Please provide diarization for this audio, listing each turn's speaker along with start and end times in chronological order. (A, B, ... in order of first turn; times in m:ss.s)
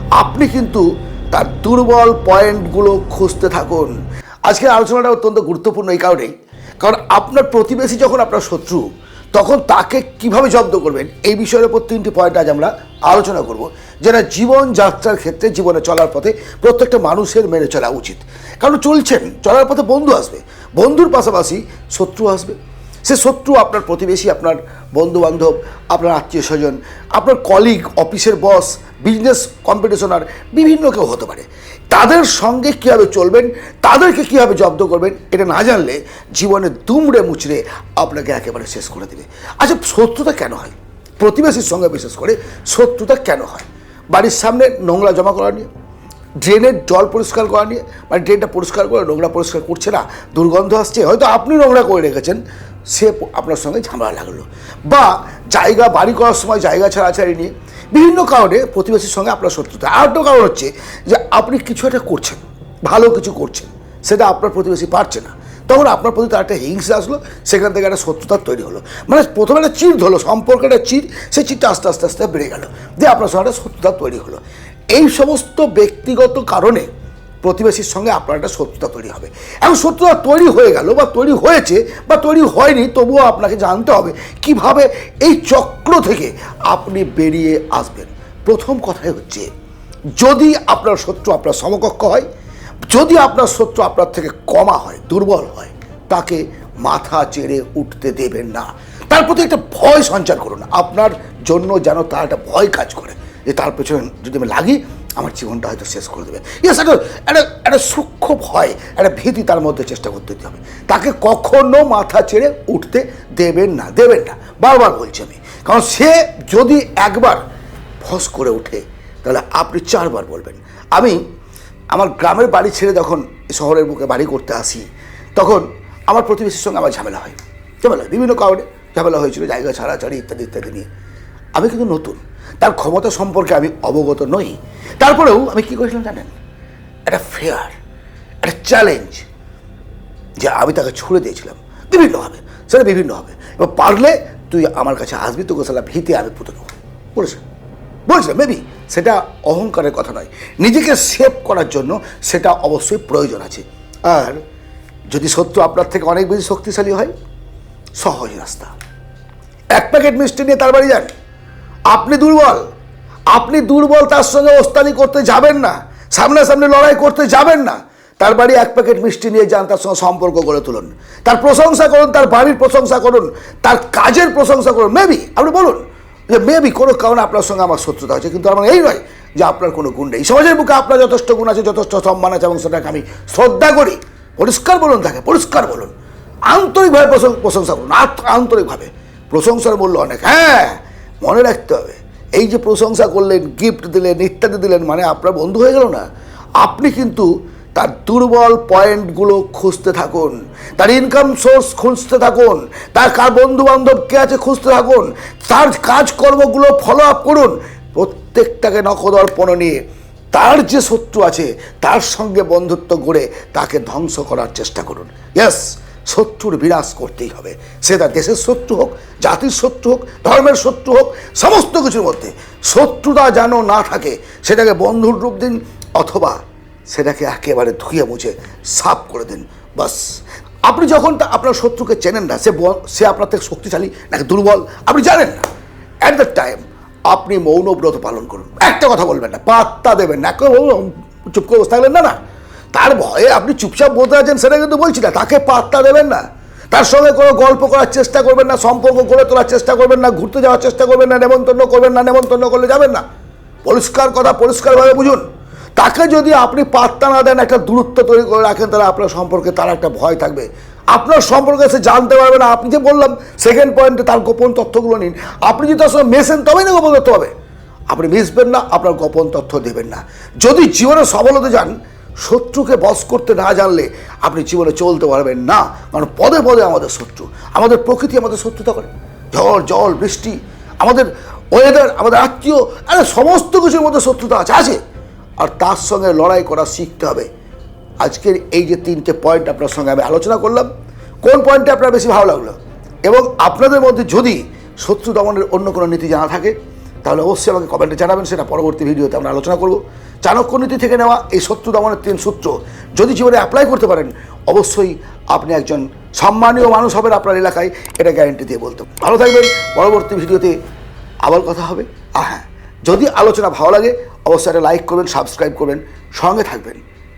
0:00.2-0:03.9 A
0:04.5-0:45.7 A
0:46.4-1:16.9 A
1:17.4-1:29.5 A
1:30.2-1:32.3 A
1:32.9-1:57.4 A
1:58.0-2:01.2 A
2:01.9-2:04.8 A
2:05.4-2:10.9 A
2:11.6-2:16.4 A
2:17.1-2:17.7 A
2:18.4-2:19.3 A
2:20.4-2:27.4 A
2:28.1-2:34.4 A
2:35.1-2:37.1 A
2:38.0-2:38.7 A
2:39.8-2:41.1 A
2:41.9-2:42.6 A
2:43.3-3:05.9 A
3:06.5-3:16.0 A
3:16.6-3:29.8 A
3:30.3-3:46.4 A
3:46.9-3:50.1 A
3:50.7-3:55.4 A
3:56.0-4:02.2 A
4:02.7-4:13.0 A
4:13.6-4:15.2 A
4:15.8-4:27.3 A
4:27.9-4:44.8 A
4:45.4-4:47.3 A
4:48.0-4:50.7 A
4:51.2-5:10.6 A
5:11.2-5:16.8 A